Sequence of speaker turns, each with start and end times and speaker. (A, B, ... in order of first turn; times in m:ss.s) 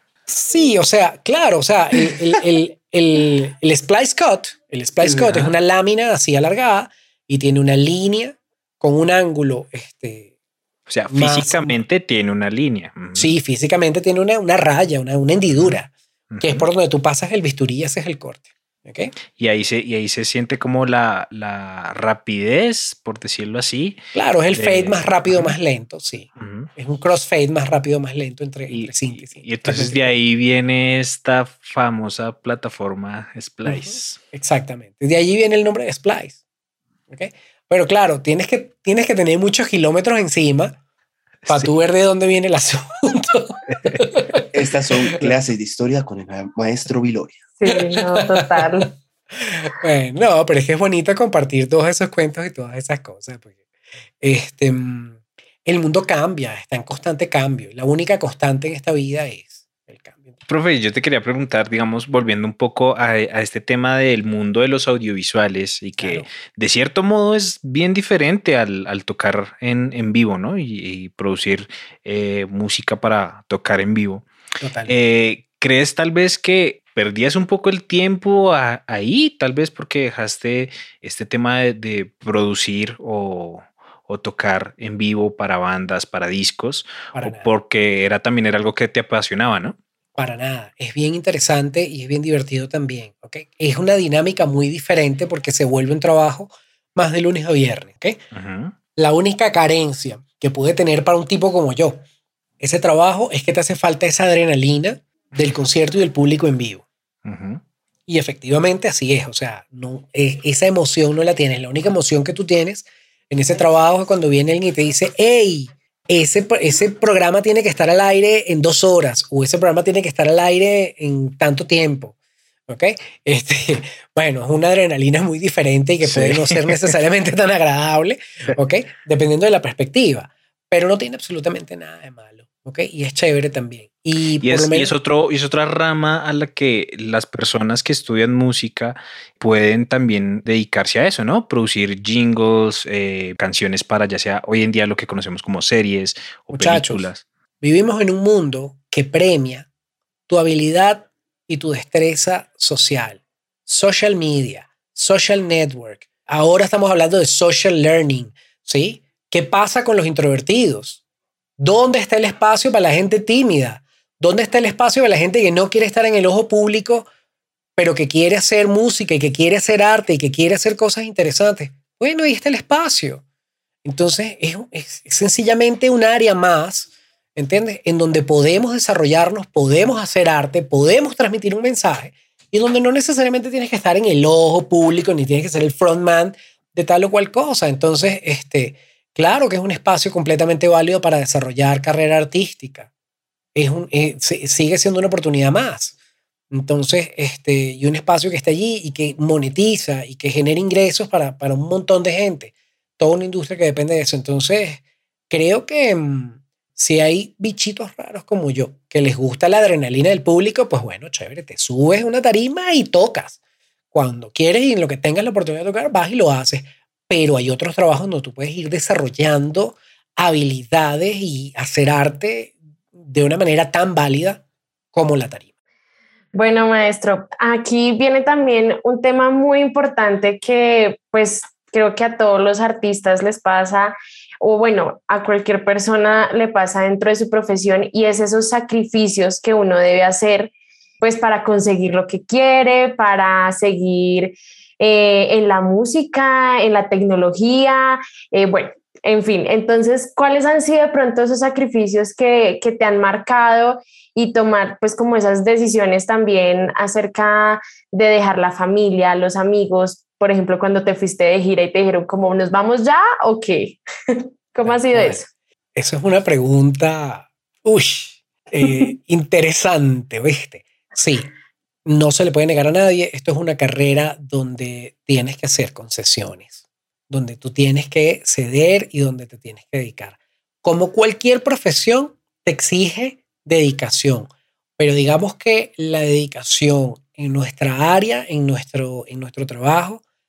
0:00.3-0:10.3 A
0:05.2-0:05.5 B
0:10.9-0:13.3 B
0:11.1-0:11.8 A
0:13.1-0:19.1 A
0:16.3-0:16.7 B
0:19.3-0:24.0 B
0:24.1-0:30.1 A
0:24.5-0:25.5 B
0:26.4-0:26.7 B
0:28.7-0:34.2 B
0:33.6-0:36.4 A
0:37.1-0:40.8 A
0:41.4-0:41.7 B
0:41.5-0:45.3 A
0:43.7-0:44.1 B
0:44.5-0:47.4 C
0:47.6-0:48.9 D
0:47.7-0:48.7 A
0:49.3-0:53.5 A
0:54.2-1:00.4 A
1:00.5-1:14.3 B
1:06.0-1:06.3 A
1:14.6-1:14.9 A
1:14.9-1:29.8 B
1:27.1-1:27.5 A
1:30.2-1:38.2 A
1:38.3-1:38.7 B
1:39.0-1:42.0 A
1:42.6-1:46.8 A
1:47.2-1:47.6 B
1:48.1-2:02.1 A
2:02.7-2:14.9 A
2:06.0-2:06.9 B
2:14.4-2:27.2 B
2:26.5-2:27.1 A
2:27.6-2:29.7 A
2:30.3-2:41.0 A
2:41.6-2:47.1 A
2:47.8-2:53.2 A
2:53.8-3:12.9 A
3:13.5-3:15.9 A
3:16.5-3:33.4 A
3:33.9-3:44.4 A
3:44.9-3:45.4 A
3:46.3-4:25.3 D
4:24.6-4:31.3 A
4:31.8-4:36.6 A
4:37.1-4:50.0 A